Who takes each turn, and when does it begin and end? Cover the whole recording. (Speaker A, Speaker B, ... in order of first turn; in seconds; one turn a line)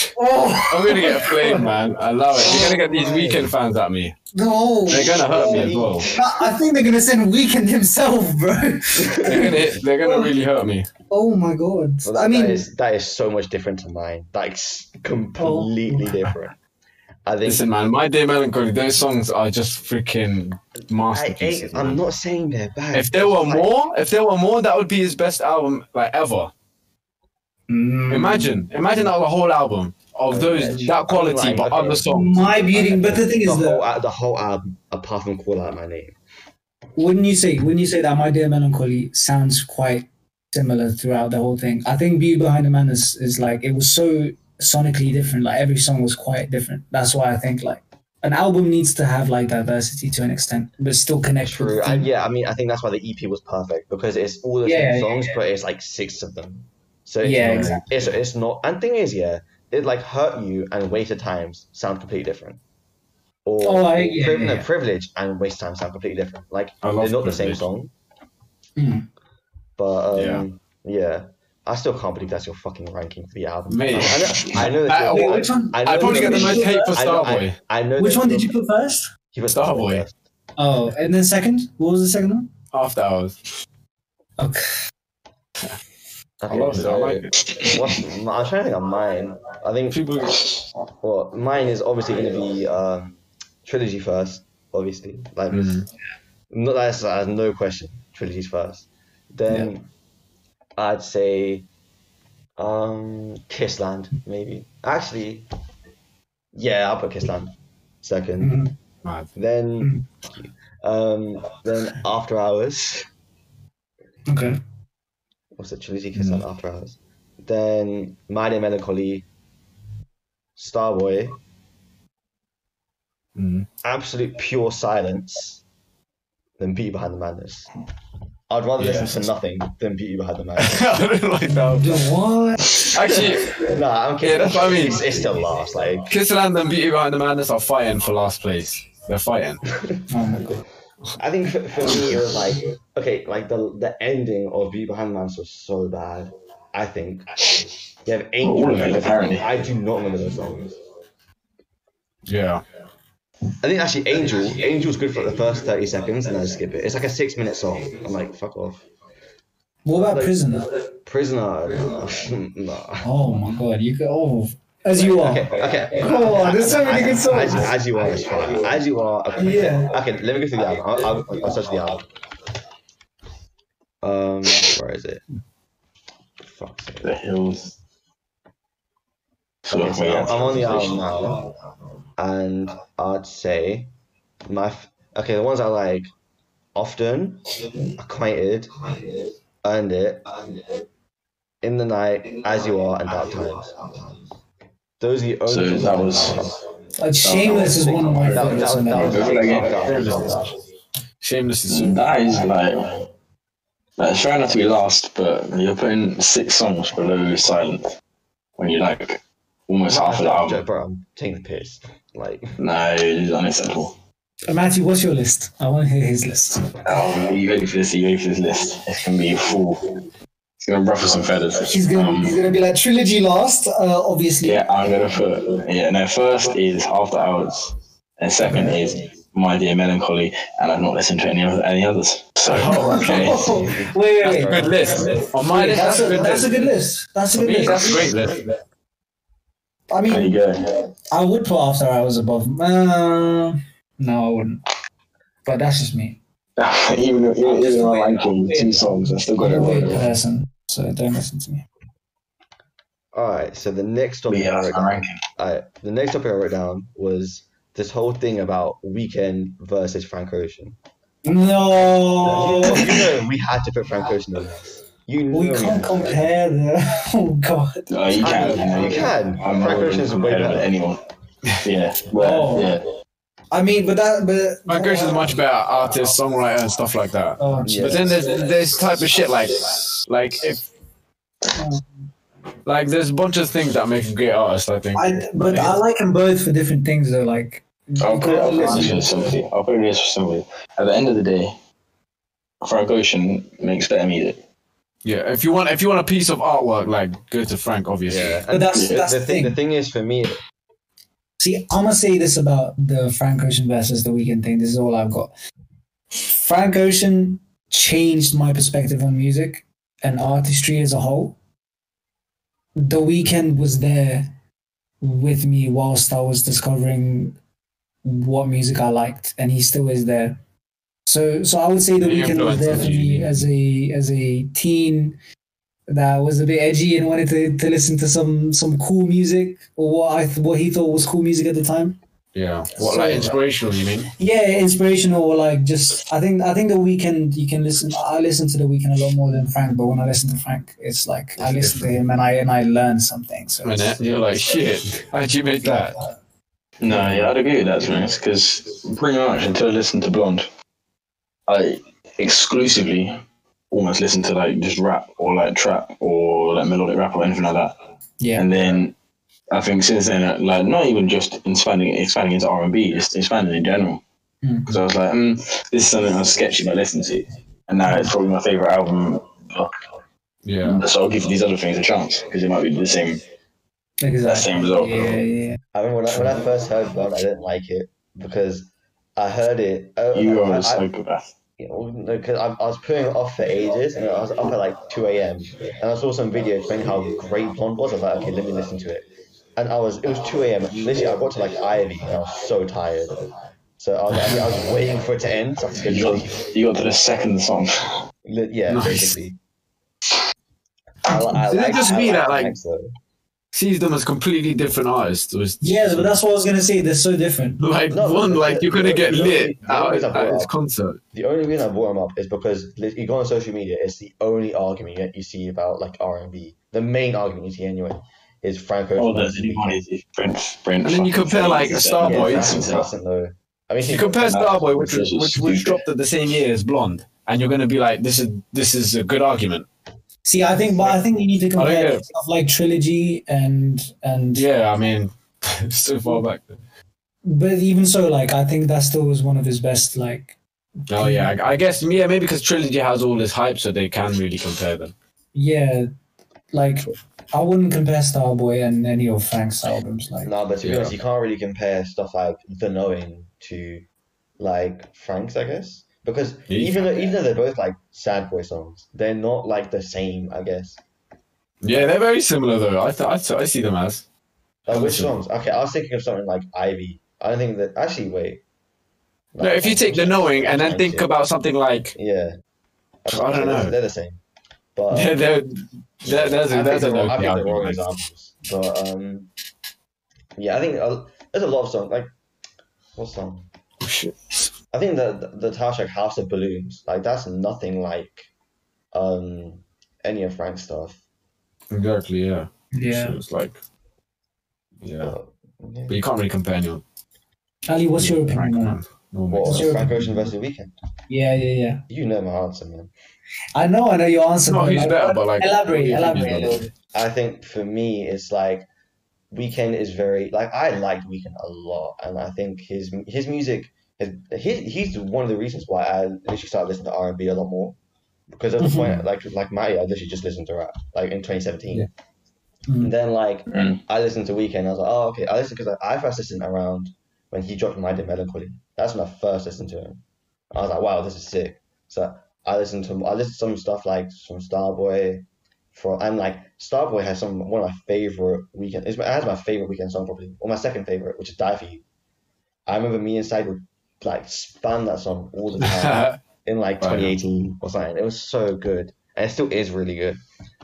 Speaker A: 0.1-1.7
Speaker B: 0.7-4.2
Speaker A: 2.4-3.2
Speaker C: 2.9-3.5
Speaker A: 4.3-10.3
Speaker B: 4.9-6.1
Speaker C: 5.0-6.2
Speaker C: 8.9-9.6
Speaker B: 9.2-10.9
Speaker A: 11.1-12.6
Speaker C: 12.0-16.5
Speaker A: 15.4-16.1
Speaker C: 17.2-17.6
Speaker B: 17.4-22.0
Speaker C: 21.1-23.7
Speaker B: 22.9-26.5
Speaker A: 27.7-28.6
Speaker B: 28.1-32.4
Speaker C: 30.3-36.1
Speaker A: 32.1-33.8
Speaker A: 37.0-52.1
Speaker C: 51.4-62.6
Speaker A: 54.6-55.4
Speaker A: 57.2-57.9
Speaker B: 57.4-58.0
Speaker C: 63.4-67.9
Speaker A: 63.6-64.7
Speaker B: 66.8-67.6
Speaker A: 68.8-69.0
Speaker C: 69.8-78.5
Speaker B: 70.1-70.4
Speaker B: 73.7-77.5
Speaker A: 75.1-77.0
Speaker A: 78.0-79.1
Speaker C: 79.3-80.1
Speaker B: 79.5-80.0
Speaker A: 80.6-82.5
Speaker B: 82.7-83.4
Speaker A: 84.4-84.7
Speaker C: 86.4-90.0
Speaker B: 86.5-87.3
Speaker B: 89.9-90.5
Speaker C: 91.0-95.8
Speaker B: 95.5-95.9
Speaker C: 96.5-99.8
Speaker C: 100.8-101.7
Speaker C: 102.6-105.5
Speaker C: 106.5-108.6
Speaker A: 108.4-108.7
Speaker B: 109.0-109.3
Speaker C: 109.3-113.0
Speaker A: 114.3-114.6
Speaker C: 115.5-119.2
Speaker B: 116.1-116.4
Speaker C: 120.5-121.4
Speaker B: 123.3-123.7
Speaker C: 123.8-125.6
Speaker C: 126.6-127.7
Speaker C: 128.5-130.9
Speaker B: 128.8-129.2
Speaker B: 130.6-132.0
Speaker A: 131.6-132.7
Speaker B: 132.8-133.7
Speaker C: 133.0-136.1
Speaker B: 134.2-135.1
Speaker B: 136.1-139.7
Speaker A: 140.1-140.6
Speaker C: 141.2-147.5
Speaker C: 148.0-150.8
Speaker D: 148.4-149.5
Speaker B: 148.6-148.9
Speaker B: 152.2-152.6
Speaker C: 153.6-158.8
Speaker A: 159.8-160.7
Speaker C: 159.9-160.4
Speaker C: 161.0-163.1
Speaker A: 163.0-167.8
Speaker C: 165.0-172.1
Speaker A: 169.4-169.9
Speaker C: 174.0-175.2
Speaker C: 176.4-177.1
Speaker D: 177.0-177.7
Speaker D: 179.7-181.1
Speaker C: 179.7-181.4
Speaker C: 182.2-183.9
Speaker C: 184.4-186.1
Speaker C: 186.7-188.8
Speaker C: 189.6-190.3
Speaker C: 191.6-194.0
Speaker C: 195.0-196.6
Speaker D: 195.5-196.4
Speaker A: 197.0-199.5
Speaker D: 197.2-199.8
Speaker C: 197.5-200.5
Speaker B: 199.7-200.5
Speaker B: 201.2-202.0
Speaker D: 201.7-202.9
Speaker D: 204.0-207.9
Speaker D: 208.6-210.6
Speaker C: 209.9-212.6
Speaker D: 212.6-213.9
Speaker A: 214.5-216.7
Speaker D: 216.8-219.9
Speaker D: 220.6-222.4
Speaker A: 221.6-224.6
Speaker D: 224.4-233.4
Speaker A: 228.4-228.8
Speaker B: 232.5-233.5
Speaker A: 232.7-238.2
Speaker C: 233.2-235.2
Speaker B: 234.2-236.7
Speaker B: 237.3-238.4
Speaker A: 239.9-240.3
Speaker D: 240.1-240.6
Speaker A: 241.1-244.6
Speaker A: 245.4-246.2
Speaker D: 246.6-250.1
Speaker A: 247.4-251.6
Speaker C: 253.1-260.8
Speaker D: 254.3-255.2
Speaker A: 261.2-263.0
Speaker C: 262.2-266.3
Speaker A: 265.3-269.0
Speaker D: 267.9-271.0
Speaker C: 268.2-270.7
Speaker D: 271.6-272.8
Speaker A: 272.1-272.8
Speaker A: 273.5-275.4
Speaker B: 274.7-280.6
Speaker A: 277.4-278.5
Speaker C: 277.6-278.2
Speaker A: 281.5-282.1
Speaker B: 282.6-285.8
Speaker A: 284.9-289.3
Speaker D: 288.0-291.5
Speaker C: 288.5-288.9
Speaker D: 292.6-294.4
Speaker B: 295.0-298.4
Speaker C: 298.1-300.3
Speaker A: 298.5-299.5
Speaker D: 298.7-299.0
Speaker A: 301.4-305.3
Speaker A: 306.1-311.4
Speaker A: 312.8-314.3
Speaker A: 315.0-317.4
Speaker A: 318.0-320.4
Speaker A: 321.1-325.2
Speaker B: 322.0-323.5
Speaker A: 325.9-332.0
Speaker B: 332.3-334.1
Speaker C: 332.8-333.4
Speaker A: 332.8-333.4
Speaker A: 334.2-344.0
Speaker B: 341.4-342.0
Speaker B: 343.6-346.0
Speaker D: 346.8-350.5
Speaker B: 346.9-347.3
Speaker D: 351.5-353.2
Speaker D: 353.7-357.7
Speaker A: 358.2-358.5
Speaker D: 358.4-358.9
Speaker D: 359.5-364.0
Speaker A: 364.4-364.8
Speaker D: 364.7-369.7
Speaker B: 370.4-370.8
Speaker D: 370.6-373.2
Speaker A: 374.0-375.6
Speaker D: 374.2-375.2
Speaker C: 375.7-380.9
Speaker D: 380.1-381.3
Speaker C: 381.6-393.2
Speaker C: 393.8-396.5
Speaker D: 395.8-397.9
Speaker C: 398.2-399.4
Speaker B: 398.7-399.2
Speaker C: 401.0-402.9
Speaker B: 401.4-402.5
Speaker B: 403.5-406.1
Speaker A: 405.6-407.6
Speaker B: 407.6-411.0
Speaker C: 407.9-410.5
Speaker C: 411.1-419.8
Speaker D: 419.0-422.9
Speaker B: 420.8-422.7
Speaker C: 422.0-424.5
Speaker B: 423.9-429.7
Speaker D: 424.2-425.8
Speaker A: 430.2-434.4
Speaker B: 431.6-432.0
Speaker B: 434.3-436.6
Speaker A: 437.2-440.4
Speaker B: 440.9-444.9
Speaker A: 440.9-441.4
Speaker A: 445.3-445.9
Speaker A: 446.5-450.3
Speaker C: 450.2-453.8
Speaker B: 450.6-450.9
Speaker C: 454.4-460.8
Speaker B: 456.5-456.8
Speaker B: 461.6-464.0
Speaker C: 464.6-468.4
Speaker B: 464.7-465.1
Speaker C: 469.3-471.1
Speaker B: 469.4-471.9
Speaker C: 471.9-472.3
Speaker C: 473.0-474.2
Speaker B: 473.1-473.7
Speaker C: 474.8-475.1
Speaker B: 474.9-477.8
Speaker C: 476.0-479.3
Speaker C: 480.4-482.1
Speaker C: 482.9-483.5
Speaker B: 483.8-484.5
Speaker C: 484.7-488.3
Speaker C: 488.9-491.0
Speaker B: 491.7-493.6
Speaker A: 492.7-493.2
Speaker B: 494.8-495.1
Speaker C: 495.0-496.0
Speaker B: 495.9-496.8
Speaker A: 497.7-498.8
Speaker B: 497.9-499.9
Speaker C: 499.3-500.7
Speaker A: 499.4-500.1
Speaker A: 501.1-501.8
Speaker C: 501.9-502.9
Speaker A: 503.5-506.7
Speaker B: 504.5-506.6
Speaker C: 506.9-508.7
Speaker C: 509.3-517.8
Speaker C: 518.3-521.9
Speaker A: 518.6-519.0
Speaker A: 522.7-522.9
Speaker C: 522.8-541.8
Speaker D: 523.5-523.8
Speaker C: 542.7-550.2
Speaker B: 545.6-546.2
Speaker B: 546.8-547.1